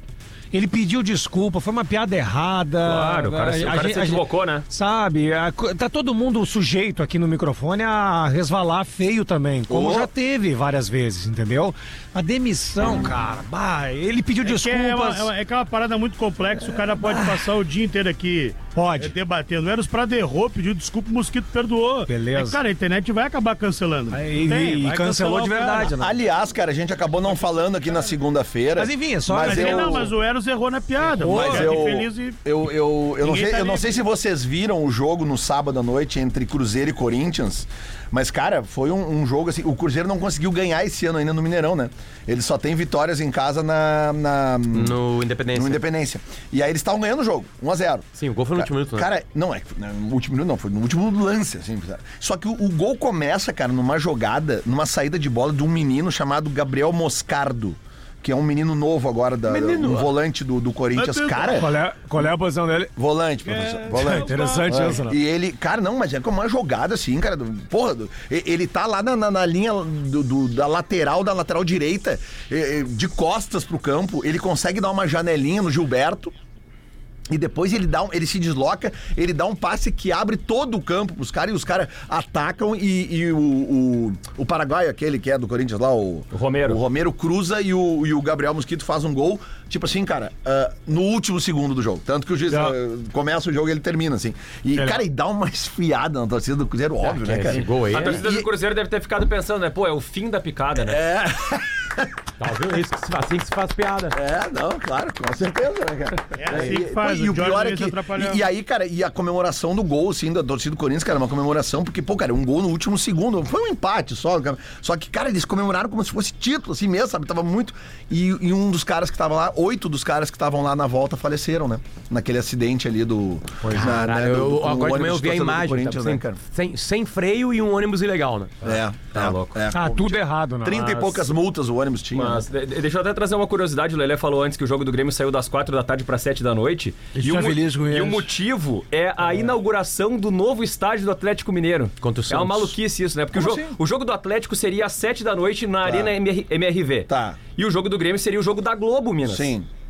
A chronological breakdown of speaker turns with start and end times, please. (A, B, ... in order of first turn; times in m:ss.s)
0:00.5-0:15.3 A
0:02.8-0:04.6 B
0:09.7-0:10.1 C
0:14.4-0:25.9 D
0:16.6-0:17.4 A
0:18.7-0:19.1 A
0:22.1-0:22.6 A
0:24.1-0:26.2 A
0:26.0-0:30.1 C
0:28.8-0:30.1 A
0:29.4-0:32.4 D
0:31.1-0:31.9 A
0:31.3-0:45.0 C
0:33.2-0:34.0 D
0:44.7-0:45.8 E
0:45.5-1:01.7 C
0:48.2-0:49.1 E
0:59.5-1:00.1 E
1:00.9-1:01.7 D
1:01.5-1:02.9 A
1:03.0-1:16.3 C
1:03.4-1:04.9 D
1:03.9-1:05.2 A
1:17.3-1:38.5 C
1:26.3-1:26.8 B
1:34.8-1:35.0 A
1:37.0-1:38.2 E
1:37.5-1:41.0 B
1:40.8-1:42.1 C
1:42.4-1:44.1 E
1:44.1-2:06.4 C
1:46.4-1:48.4 D
2:03.6-2:03.9 A
2:03.7-2:08.5 E
2:08.6-2:12.4 C
2:09.1-2:09.6 B
2:09.7-2:10.9 A
2:10.7-2:11.3 B
2:12.1-2:29.6 B
2:17.1-2:18.3 A
2:22.0-2:22.8 E
2:23.3-2:23.7 A
2:25.8-2:26.1 C
2:27.1-2:27.4 C
2:29.2-2:29.7 C